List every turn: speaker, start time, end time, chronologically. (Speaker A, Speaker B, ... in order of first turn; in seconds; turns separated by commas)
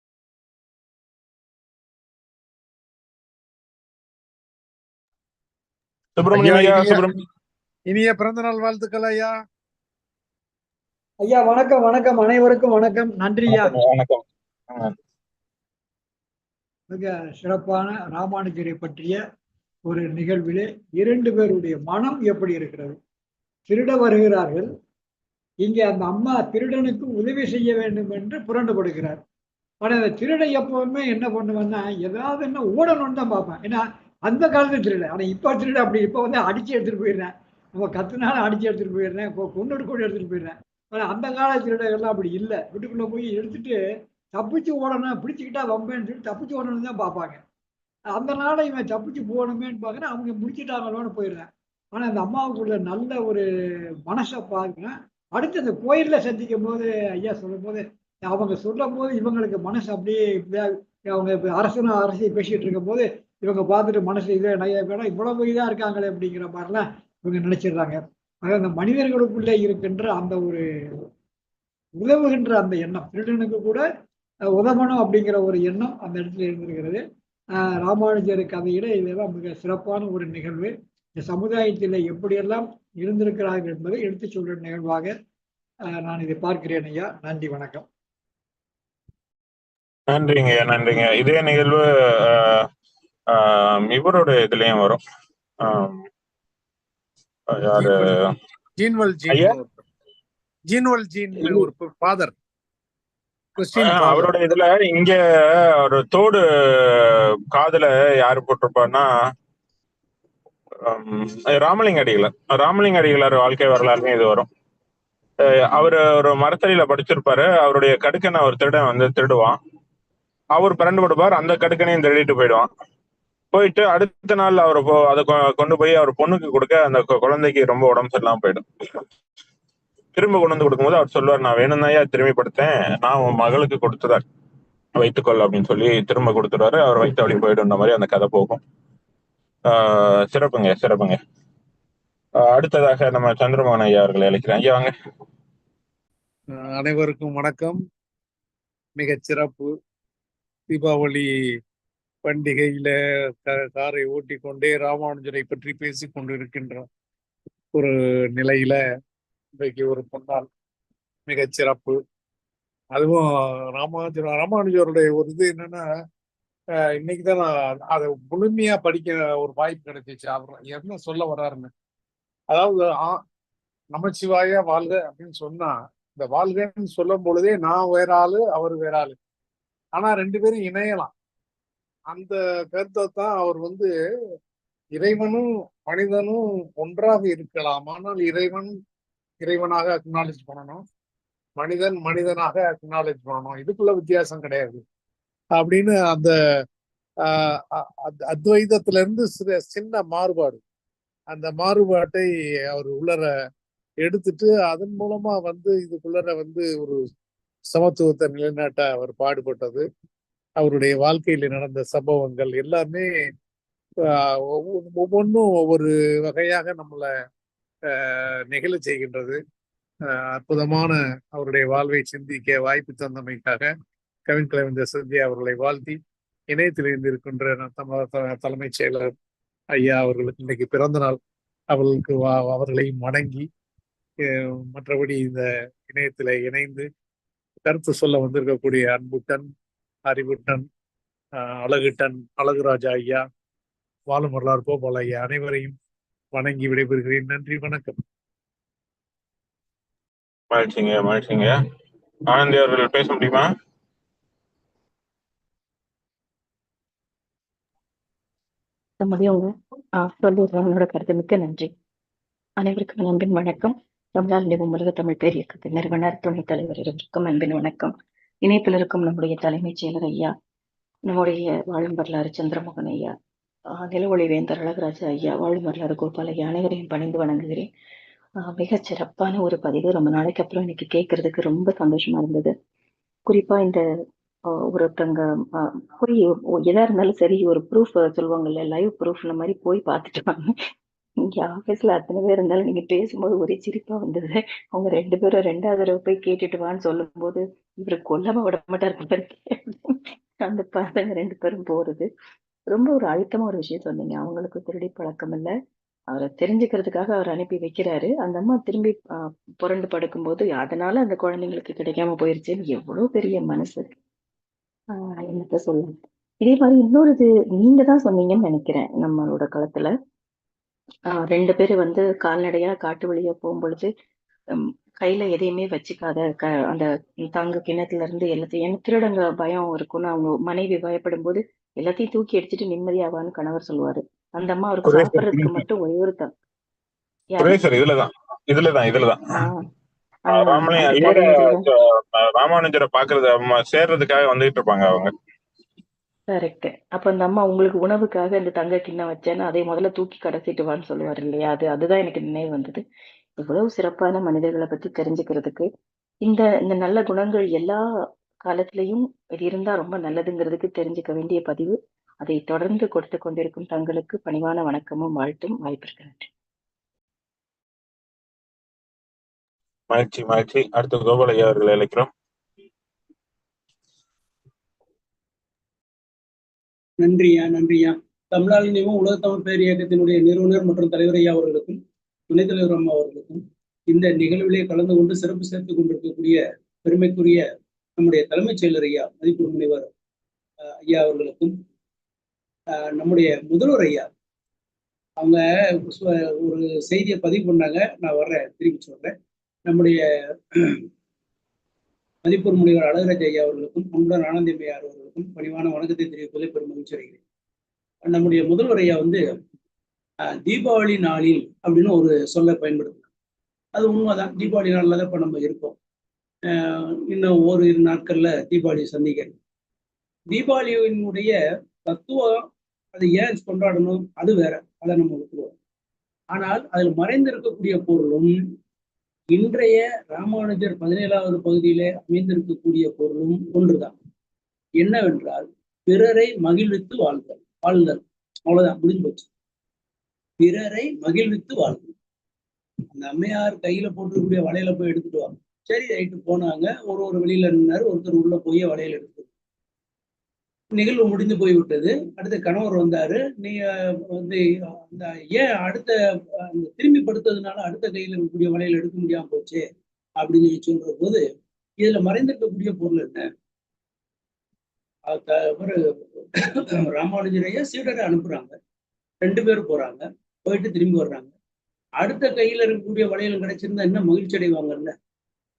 Speaker A: 6.2-7.2, Speaker B: 6.3-7.0, Speaker B: 7.9-9.3, Speaker C: 11.2-13.8, Speaker A: 13.5-14.9, Speaker C: 16.9-19.2, Speaker C: 19.9-23.0, Speaker C: 23.7-24.7, Speaker C: 25.6-29.2, Speaker C: 29.8-43.8, Speaker C: 44.3-47.4, Speaker C: 48.1-53.5, Speaker C: 54.1-70.6, Speaker C: 72.0-73.8, Speaker C: 74.5-77.0, Speaker C: 77.6-85.1, Speaker C: 86.0-87.9, Speaker A: 90.1-92.7, Speaker A: 93.3-95.0, Speaker A: 95.6-96.0, Speaker A: 97.5-98.1, Speaker B: 97.8-98.2, Speaker B: 98.8-99.8, Speaker B: 100.7-102.3, Speaker A: 101.4-101.7, Speaker B: 103.6-104.3, Speaker A: 103.8-109.1, Speaker A: 110.8-114.5, Speaker A: 115.5-119.6, Speaker A: 120.5-122.7, Speaker A: 123.5-128.6, Speaker A: 130.2-134.2, Speaker A: 135.0-138.6, Speaker A: 139.7-141.2, Speaker A: 142.4-144.9, Speaker B: 146.6-147.8, Speaker B: 149.0-149.7, Speaker B: 150.7-151.3, Speaker B: 152.2-156.9, Speaker B: 157.7-158.8, Speaker B: 159.6-160.5, Speaker B: 161.3-162.0, Speaker B: 162.9-163.2, Speaker B: 163.8-165.8, Speaker B: 167.0-171.7, Speaker B: 172.5-173.2, Speaker B: 173.9-179.2, Speaker B: 180.0-181.1, Speaker B: 182.1-183.9, Speaker B: 185.0-188.7, Speaker B: 189.4-190.8, Speaker B: 191.6-194.8, Speaker B: 195.6-196.3, Speaker B: 197.3-200.6, Speaker B: 201.3-203.3, Speaker B: 204.0-207.0, Speaker B: 207.7-209.8, Speaker B: 210.6-213.1, Speaker B: 214.1-217.1, Speaker B: 217.9-219.4, Speaker B: 220.1-223.7, Speaker B: 224.3-226.0, Speaker B: 226.5-229.1, Speaker B: 229.8-231.2, Speaker B: 231.7-233.5, Speaker B: 234.3-236.9, Speaker B: 237.7-239.4, Speaker B: 240.1-240.7, Speaker B: 241.4-243.2, Speaker B: 244.1-245.8, Speaker B: 246.4-247.9, Speaker A: 250.5-251.5, Speaker A: 252.3-253.5, Speaker D: 259.0-261.7, Speaker D: 262.6-267.9, Speaker D: 268.4-270.3, Speaker D: 271.1-273.1, Speaker D: 273.8-277.7, Speaker D: 278.4-282.5, Speaker D: 283.3-283.8, Speaker D: 284.7-290.5, Speaker D: 291.3-302.1, Speaker D: 302.7-305.5, Speaker D: 306.1-309.0, Speaker D: 309.6-313.9, Speaker D: 315.0-319.9, Speaker D: 321.2-323.9, Speaker D: 324.6-336.3, Speaker A: 334.9-335.6, Speaker A: 337.4-339.2, Speaker D: 340.3-341.7, Speaker A: 340.3-345.1, Speaker D: 346.3-352.8, Speaker D: 353.4-355.7, Speaker D: 356.2-357.8, Speaker D: 358.5-366.3, Speaker A: 369.9-372.1, Speaker E: 377.0-387.4, Speaker E: 388.0-389.9, Speaker E: 390.9-391.6, Speaker E: 392.9-394.1, Speaker E: 395.2-399.1, Speaker E: 399.7-400.0, Speaker E: 400.5-400.9, Speaker E: 402.2-407.2, Speaker E: 408.0-409.2, Speaker E: 410.5-413.1, Speaker E: 413.8-415.8, Speaker E: 416.5-419.4, Speaker E: 420.3-421.3, Speaker E: 421.9-425.6, Speaker E: 426.3-428.3, Speaker E: 429.3-433.9, Speaker E: 434.8-439.3, Speaker E: 440.4-441.9, Speaker E: 442.9-449.3, Speaker E: 450.7-456.0, Speaker E: 456.5-459.6, Speaker E: 460.2-461.2, Speaker E: 461.8-463.2, Speaker E: 465.1-465.8, Speaker E: 466.4-468.6, Speaker E: 469.2-471.3, Speaker E: 472.0-474.9